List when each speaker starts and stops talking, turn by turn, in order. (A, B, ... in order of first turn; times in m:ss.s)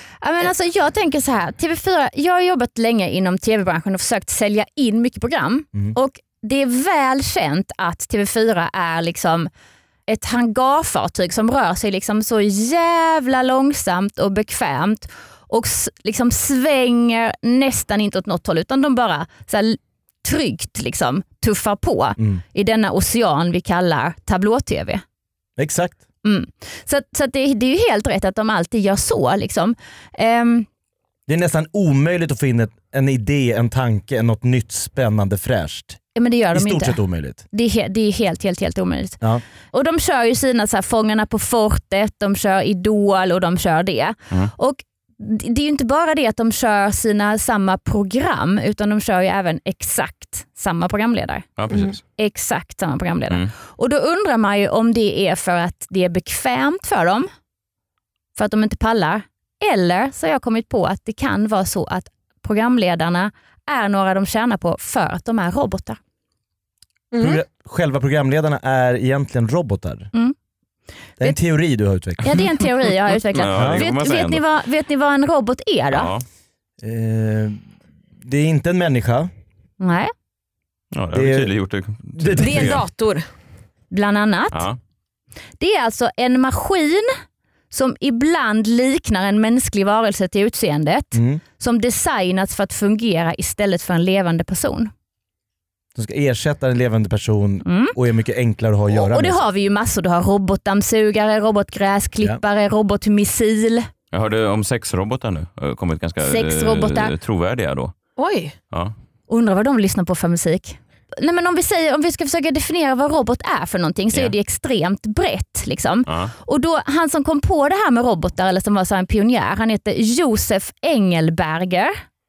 0:00.2-0:09.5 A
0:10.1-0:25.0 A
0:25.6-0:26.0 B
0:26.2-0:30.7 A
0:31.3-0:36.0 B
0:36.2-0:37.0 A
0:36.5-0:37.4 B
0:37.5-0:39.2 A
0:39.7-0:51.5 A
0:51.6-0:52.0 C
0:51.7-0:52.0 D
0:52.2-0:57.3 A
0:58.4-1:06.0 A
1:07.1-1:07.4 D
1:07.2-1:10.1 B
1:11.2-1:12.4 B
1:12.2-1:16.1 A
1:13.3-1:14.4 C
1:13.5-1:13.8 B
1:15.9-1:16.2 C
1:16.8-1:17.6 B
1:18.2-1:19.3 B
1:19.8-1:20.1 A
1:20.9-1:22.8 C
1:21.1-1:21.5 B
1:22.2-1:22.8 B
1:22.4-1:23.3 D
1:23.9-1:24.6 A
1:24.5-1:24.8 C
1:25.6-1:27.1 A
1:27.7-1:34.9 A
1:31.1-1:31.4 B
1:36.0-1:39.4 B
1:37.6-1:38.0 A
1:38.9-1:43.9 A
1:44.1-1:47.9 C
1:46.2-1:47.1 A
1:48.2-1:48.6 D
1:49.3-2:02.0 A
1:56.1-1:56.3 C